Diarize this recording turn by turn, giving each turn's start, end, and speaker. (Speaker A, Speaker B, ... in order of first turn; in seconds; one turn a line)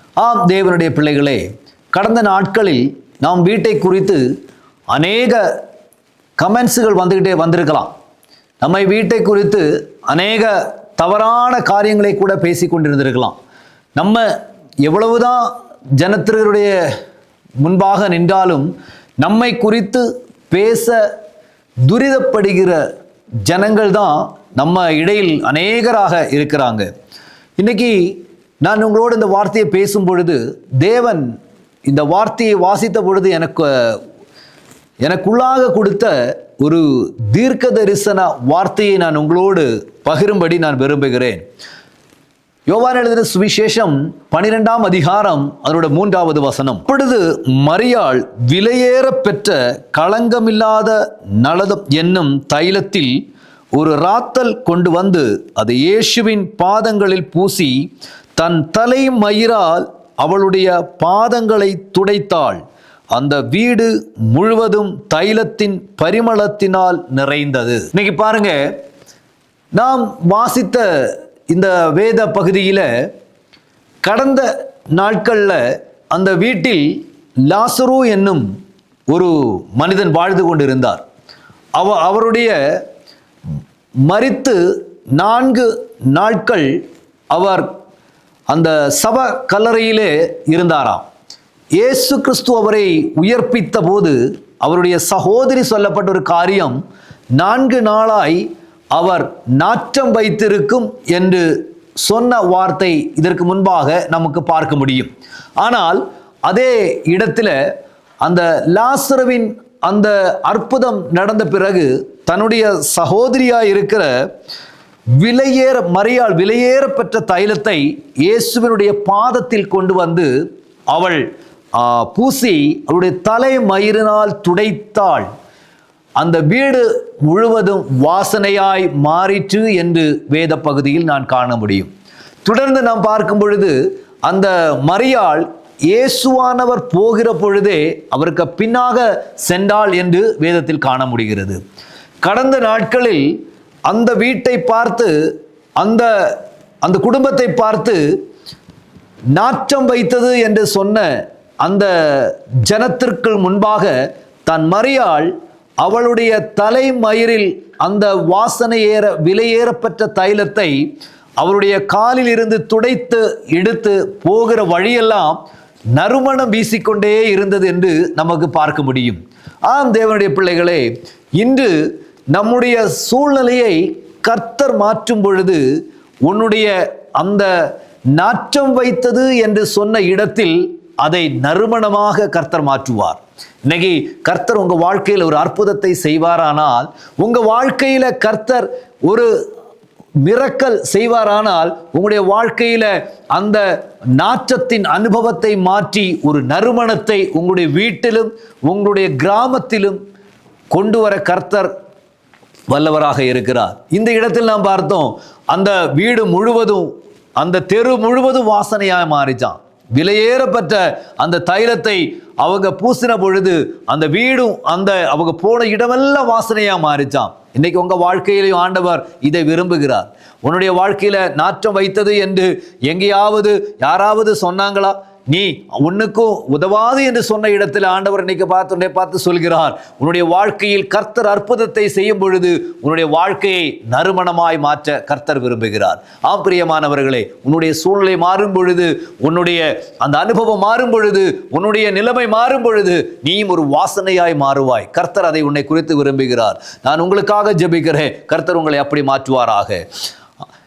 Speaker A: 0.2-4.2
Speaker A: 4.9-5.5
Speaker A: 6.4-7.9
Speaker A: 8.6-13.4
Speaker A: 13.9-16.8
Speaker A: 17.6-18.7
Speaker A: 19.2-21.0
Speaker A: 21.9-22.8
Speaker A: 23.4-26.9
Speaker A: 27.6-31.3
Speaker A: 31.8-34.0
Speaker A: 35.0-41.4
Speaker A: 42.7-53.2
Speaker A: 53.7-57.8
Speaker A: 58.4-62.6
Speaker A: 63.1-68.7
Speaker A: 69.7-73.1
Speaker A: 74.0-78.4
Speaker A: 79.1-81.0
Speaker A: 81.8-82.8
Speaker A: 84.0-84.6
Speaker A: 85.1-86.8
Speaker A: 87.3-87.7
Speaker A: 88.5-91.1
Speaker A: 91.8-96.8
Speaker A: 97.4-101.5
Speaker A: 102.0-107.6
Speaker A: 108.2-114.1
Speaker A: 115.2-120.3
Speaker A: 120.9-125.3
Speaker A: 126.2-131.9
Speaker A: 132.4-141.6
Speaker A: 142.2-143.4
Speaker A: 143.9-145.1
Speaker A: 145.8-148.1
Speaker A: 149.3-151.1
Speaker A: 151.6-160.8
Speaker A: 161.4-165.4
Speaker A: 165.9-171.8
Speaker A: 172.3-175.6
Speaker A: 176.3-177.5
Speaker A: 178.1-189.3
Speaker A: 190.2-200.0
Speaker A: 200.7-201.7
Speaker A: 202.7-249.8